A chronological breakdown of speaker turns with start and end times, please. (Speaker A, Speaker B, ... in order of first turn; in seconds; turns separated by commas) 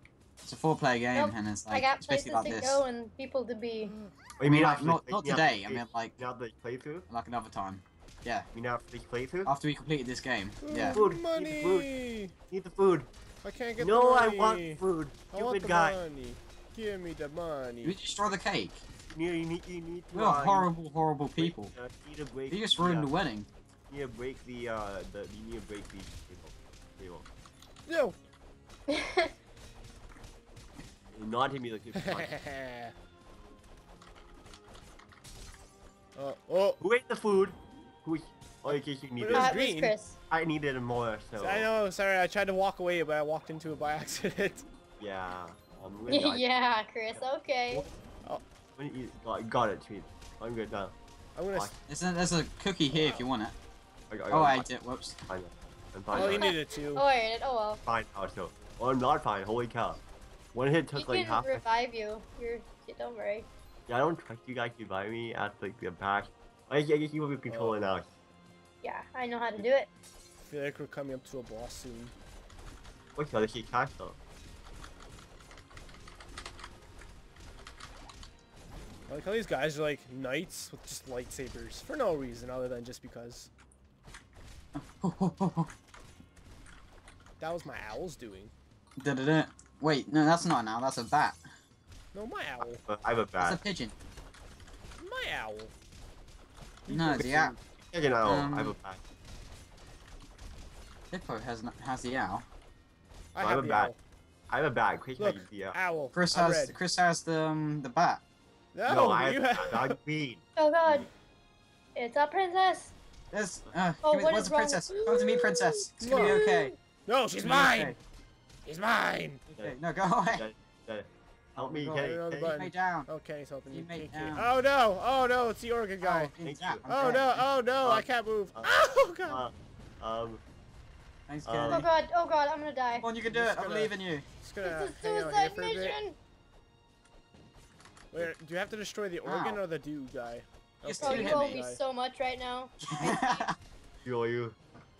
Speaker A: 0.4-2.8, Speaker B: 1.1-4.0, Speaker C: 4.4-7.1, Speaker A: 4.4-6.2, Speaker A: 7.1-8.5, Speaker C: 8.5-9.5, Speaker A: 9.5-11.0, Speaker D: 10.6-12.3, Speaker C: 10.9-11.9, Speaker C: 12.5-13.1, Speaker D: 13.4-14.8, Speaker C: 13.8-16.0, Speaker D: 15.3-18.0, Speaker A: 17.8-18.9, Speaker C: 19.1-20.7, Speaker A: 20.1-21.7, Speaker C: 21.4-23.1, Speaker A: 22.5-23.5, Speaker C: 23.9-27.2, Speaker D: 27.9-28.2, Speaker B: 28.9-29.3, Speaker C: 31.1-32.4, Speaker D: 32.0-32.9, Speaker D: 36.2-36.8, Speaker C: 36.8-39.6, Speaker D: 39.2-40.0, Speaker B: 39.3-40.2, Speaker C: 40.3-41.7, Speaker D: 41.4-44.6, Speaker C: 45.0-46.4, Speaker B: 46.1-47.9, Speaker C: 47.1-47.9, Speaker C: 48.8-51.0, Speaker D: 51.4-51.7, Speaker A: 51.9-53.5, Speaker D: 52.9-53.2, Speaker C: 54.1-54.7, Speaker A: 54.3-55.2, Speaker C: 55.3-56.5, Speaker D: 56.1-57.0, Speaker B: 56.1-57.8, Speaker C: 57.8-60.0, Speaker C: 60.5-61.6, Speaker B: 60.9-63.5, Speaker C: 63.9-68.1, Speaker D: 67.5-67.9, Speaker B: 68.8-69.9, Speaker D: 70.4-72.2, Speaker C: 73.2-74.2, Speaker D: 79.1-83.5, Speaker A: 84.8-85.7, Speaker D: 87.4-88.5, Speaker A: 89.0-91.4, Speaker D: 92.1-92.8, Speaker C: 92.8-93.6, Speaker A: 93.4-94.0, Speaker D: 95.0-95.7, Speaker D: 96.9-97.5, Speaker A: 96.9-97.5, Speaker C: 97.2-99.0, Speaker A: 98.2-98.8, Speaker A: 101.1-102.5, Speaker D: 103.3-104.0, Speaker C: 103.4-103.9, Speaker C: 104.5-105.8, Speaker D: 105.2-106.8, Speaker A: 106.1-108.2, Speaker D: 108.7-110.0, Speaker C: 108.9-111.0, Speaker B: 110.6-111.1, Speaker B: 112.0-112.9, Speaker A: 113.3-116.8, Speaker B: 114.0-115.0, Speaker D: 115.1-118.0, Speaker A: 117.4-118.0, Speaker D: 118.7-119.4, Speaker A: 119.5-120.5, Speaker C: 120.3-122.5, Speaker A: 121.6-123.1, Speaker D: 122.0-126.3, Speaker A: 123.7-124.5, Speaker A: 126.0-127.4, Speaker C: 126.4-130.4, Speaker D: 126.9-129.4, Speaker A: 131.3-131.9, Speaker C: 131.4-131.8, Speaker B: 131.7-133.1, Speaker A: 133.0-134.2, Speaker D: 133.2-136.0, Speaker B: 134.6-136.2, Speaker D: 138.1-141.8, Speaker A: 139.2-139.6, Speaker A: 140.8-141.6, Speaker B: 141.0-143.5, Speaker A: 142.9-143.5, Speaker C: 144.1-144.6